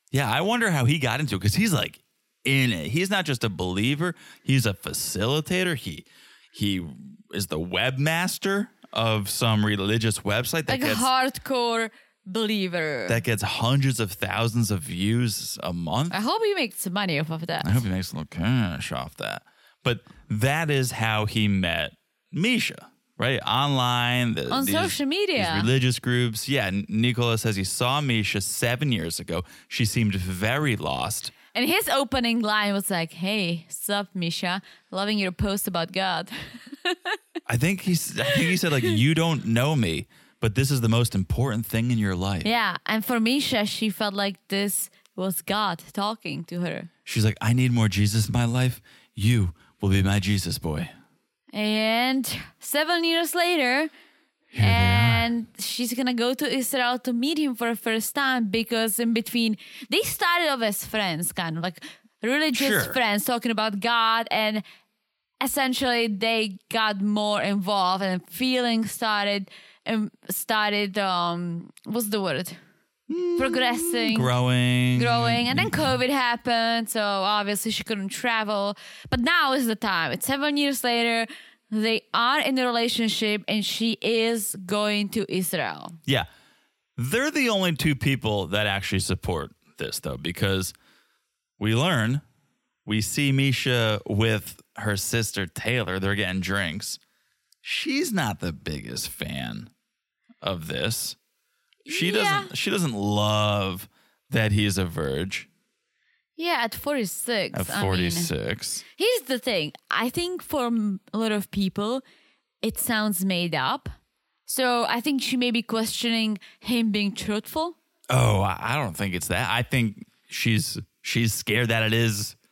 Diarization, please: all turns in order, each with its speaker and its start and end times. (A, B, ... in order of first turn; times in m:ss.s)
0:00.1-0:11.1 A
0:10.7-0:13.2 B
0:13.1-0:16.2 A
0:16.1-0:17.8 B
0:17.6-0:31.3 A
0:24.5-0:25.7 B
0:31.5-0:37.2 B
0:37.5-0:42.5 A
0:38.3-0:38.6 B
0:42.4-0:46.9 B
0:47.1-0:50.9 A
0:51.5-0:53.9 B
0:54.5-0:55.3 A
0:54.6-1:04.6 B
1:02.5-1:03.0 A
1:05.4-1:12.6 B
1:13.1-1:15.9 A
1:13.4-1:14.3 B
1:15.0-1:26.0 B
1:27.0-1:30.7 A
1:31.6-1:32.2 A
1:32.8-1:37.0 A
1:37.6-1:39.7 A
1:40.4-1:41.2 A
1:41.8-1:42.5 B
1:41.9-1:45.5 A
1:46.4-1:48.3 B
1:47.5-1:48.8 A
1:49.0-1:52.0 B
1:52.6-1:53.9 B
1:54.5-1:57.8 B
1:58.1-2:02.4 A